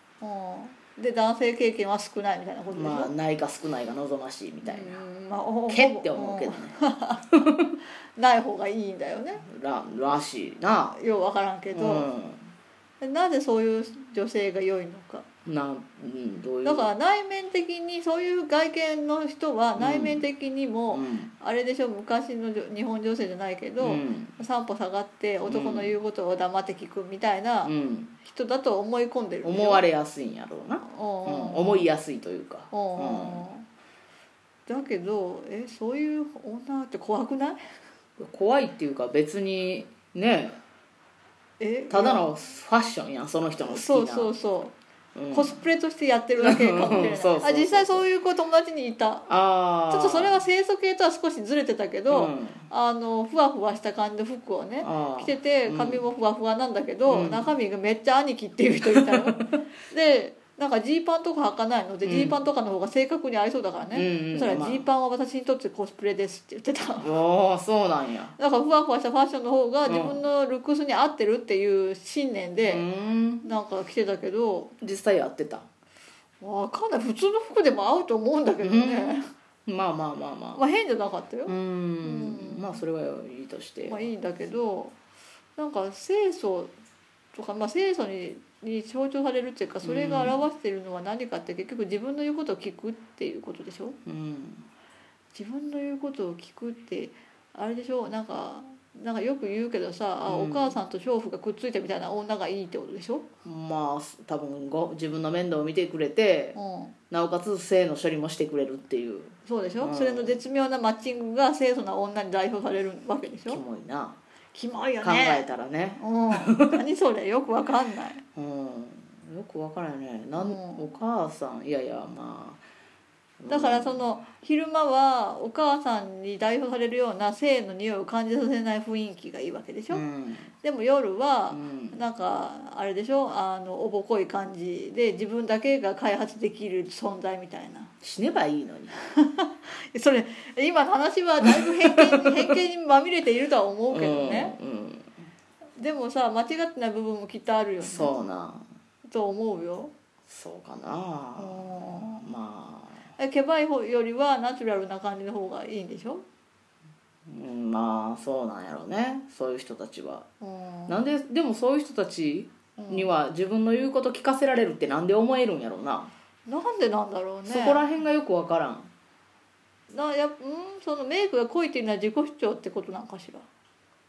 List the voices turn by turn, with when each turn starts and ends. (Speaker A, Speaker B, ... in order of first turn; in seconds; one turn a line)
Speaker A: 0.2-3.1
Speaker B: 2.7-5.0
Speaker A: 4.7-7.3
Speaker B: 5.7-6.8
Speaker B: 7.3-7.8
Speaker A: 8.2-9.4
Speaker B: 9.4-11.0
Speaker A: 10.9-12.1
Speaker B: 11.7-12.5
Speaker A: 13.0-15.3
Speaker B: 15.5-16.9
Speaker A: 16.6-29.8
Speaker B: 19.8-20.3
Speaker B: 20.9-21.3
Speaker B: 23.8-24.4
Speaker B: 25.5-26.0
Speaker B: 27.6-28.1
Speaker B: 29.4-33.5
Speaker A: 30.8-31.9
Speaker A: 32.7-33.6
Speaker A: 34.7-37.6
Speaker B: 38.2-40.6
Speaker A: 41.6-42.3
Speaker B: 41.9-44.3
Speaker A: 43.7-44.8
Speaker B: 45.2-45.6
Speaker A: 45.3-49.3
Speaker B: 46.4-48.0
Speaker B: 49.3-50.4
Speaker A: 49.9-67.2
Speaker B: 52.1-52.7
Speaker B: 54.8-56.0
Speaker B: 57.1-57.5
Speaker B: 58.9-59.6
Speaker B: 62.0-62.4
Speaker B: 63.9-64.8
Speaker B: 67.0-68.3
Speaker A: 68.4-72.8
Speaker B: 69.8-70.2
Speaker B: 72.7-73.5
Speaker A: 73.4-74.7
Speaker B: 74.8-75.7
Speaker A: 76.4-79.3
Speaker B: 78.6-80.6
Speaker A: 80.6-82.8
Speaker B: 81.5-84.0
Speaker A: 83.8-85.0
Speaker A: 85.6-86.7
Speaker A: 87.3-94.0
Speaker B: 89.8-90.5
Speaker B: 94.1-94.7
Speaker A: 95.3-103.3
Speaker B: 100.3-100.8
Speaker B: 103.5-106.6
Speaker A: 106.5-106.9
Speaker B: 107.1-110.4
Speaker A: 109.5-113.6
Speaker B: 113.5-114.2
Speaker A: 114.5-115.4
Speaker B: 115.0-116.8
Speaker A: 116.0-118.2
Speaker B: 118.4-122.6
Speaker A: 120.4-120.8
Speaker B: 123.4-124.1
Speaker A: 123.5-130.0
Speaker B: 129.9-130.5
Speaker A: 130.6-137.9
Speaker B: 131.5-132.0
Speaker B: 138.0-138.9
Speaker A: 139.1-144.5
Speaker B: 141.4-142.6
Speaker B: 143.9-145.1
Speaker A: 145.8-148.2
Speaker B: 147.8-148.6
Speaker A: 149.1-149.9
Speaker B: 150.3-153.0
Speaker A: 151.4-152.2
Speaker A: 153.2-156.2
Speaker B: 157.3-160.3
Speaker A: 160.4-161.0
Speaker B: 160.9-166.1
Speaker A: 162.8-163.1
Speaker A: 166.5-167.9
Speaker B: 167.5-168.9
Speaker A: 169.9-173.4